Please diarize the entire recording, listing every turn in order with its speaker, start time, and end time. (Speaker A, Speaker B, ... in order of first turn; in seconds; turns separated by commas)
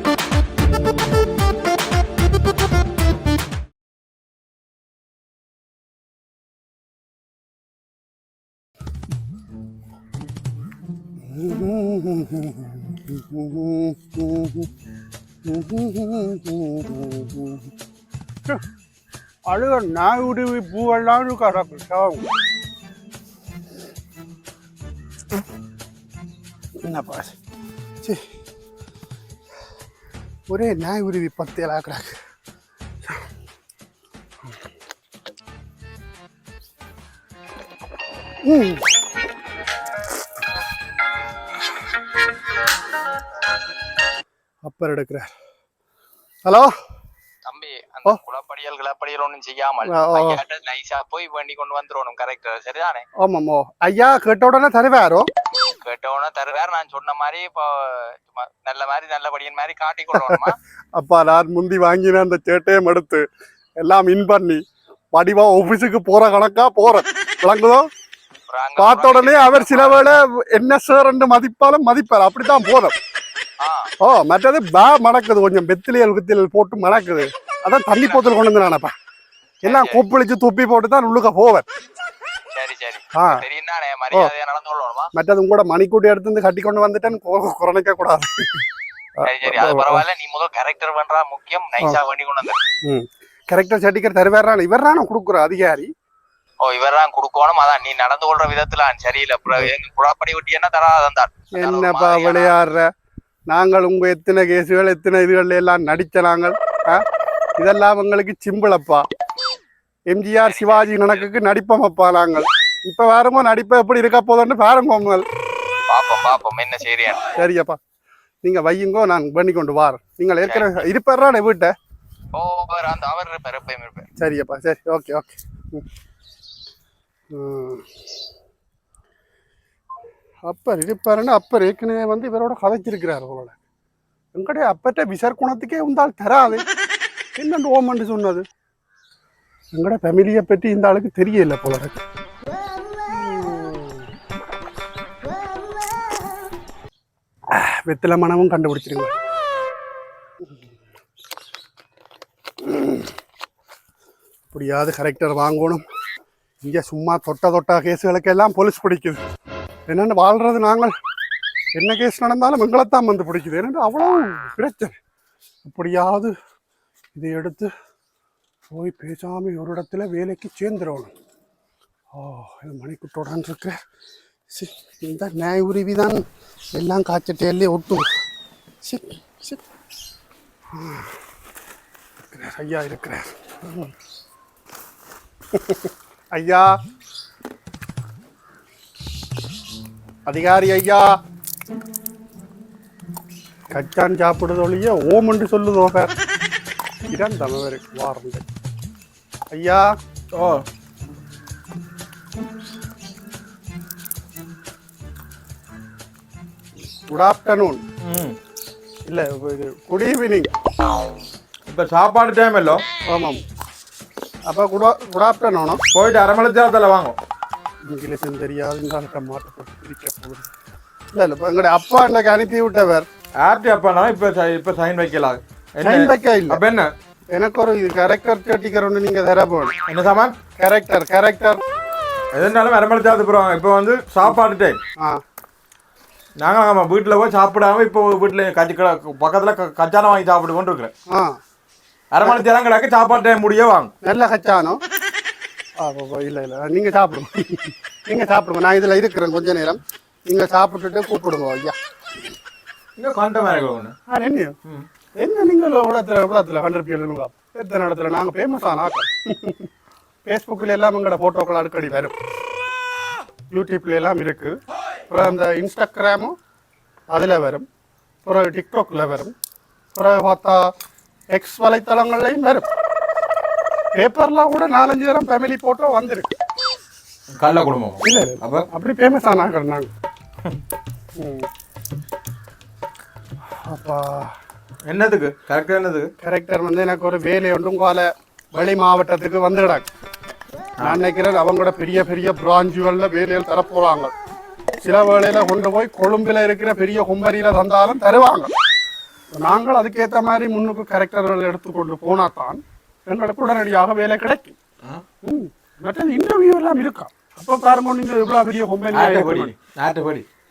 Speaker A: 11.3-14.7, Speaker A: 15.5-17.7, Speaker A: 19.5-22.2, Speaker A: 26.8-27.4, Speaker A: 30.5-32.2, Speaker A: 38.4-38.8, Speaker A: 44.6-45.3, Speaker A: 46.5-46.7, Speaker B: 47.5-53.0, Speaker A: 49.8-50.4, Speaker A: 53.2-55.3, Speaker B: 55.8-60.6, Speaker A: 60.2-63.2, Speaker A: 63.8-67.9, Speaker B: 68.5-70.0, Speaker A: 68.8-73.0, Speaker B: 73.6-73.9, Speaker A: 74.0-78.9, Speaker B: 79.7-80.0, Speaker A: 79.7-81.7, Speaker B: 82.5-85.1, Speaker A: 83.1-83.4, Speaker A: 85.1-88.6, Speaker A: 89.2-90.0, Speaker B: 89.3-92.6, Speaker A: 92.8-95.9, Speaker B: 96.6-102.5, Speaker A: 101.5-102.9, Speaker A: 103.5-107.0, Speaker A: 107.6-109.1, Speaker A: 110.1-115.2, Speaker B: 110.5-111.3, Speaker B: 115.9-117.3, Speaker A: 117.3-117.8, Speaker A: 118.4-121.7, Speaker B: 122.3-124.1, Speaker A: 124.2-125.8, Speaker A: 127.3-127.9, Speaker A: 130.4-133.5, Speaker A: 134.3-136.6, Speaker A: 137.4-138.4, Speaker A: 139.7-142.0, Speaker A: 143.1-144.0, Speaker A: 147.5-149.1, Speaker A: 152.6-153.1, Speaker A: 154.5-155.8, Speaker A: 156.6-159.2, Speaker A: 159.9-160.9, Speaker A: 161.8-165.0, Speaker A: 165.6-166.3, Speaker A: 167.2-167.7, Speaker A: 168.7-171.1, Speaker A: 172.1-173.8, Speaker A: 174.5-178.1, Speaker A: 178.8-179.6, Speaker A: 180.7-181.1, Speaker A: 182.3-183.9, Speaker A: 185.5-186.7, Speaker A: 190.3-191.1, Speaker A: 193.7-196.1, Speaker A: 197.1-198.4, Speaker A: 199.5-199.9, Speaker C: 200.3-200.6, Speaker A: 207.1-207.8, Speaker C: 208.0-208.4, Speaker A: 209.1-210.5, Speaker C: 211.7-212.8, Speaker A: 213.1-213.4, Speaker A: 214.5-215.8, Speaker C: 215.9-217.2, Speaker A: 217.9-220.5, Speaker A: 221.1-223.1, Speaker C: 223.4-226.9, Speaker A: 225.8-226.6, Speaker A: 227.3-229.8, Speaker C: 229.9-230.3, Speaker A: 230.6-231.6, Speaker C: 232.3-234.8, Speaker C: 236.4-240.9, Speaker A: 241.1-241.4, Speaker C: 242.1-243.9, Speaker A: 244.0-244.8, Speaker A: 245.8-251.8, Speaker C: 253.0-253.9, Speaker A: 254.1-254.6, Speaker A: 255.2-259.7, Speaker A: 260.3-262.1, Speaker A: 263.5-264.6, Speaker A: 265.1-266.4, Speaker A: 267.1-267.7, Speaker A: 268.2-269.3, Speaker A: 269.9-270.7, Speaker A: 271.3-272.7, Speaker A: 274.0-276.3, Speaker C: 277.3-278.7, Speaker A: 278.0-279.9, Speaker A: 281.2-281.5, Speaker A: 283.6-284.3, Speaker C: 284.9-286.1, Speaker A: 286.2-289.9, Speaker A: 290.8-294.1, Speaker A: 294.8-298.5, Speaker A: 299.3-304.6, Speaker A: 305.2-309.5, Speaker C: 308.9-310.2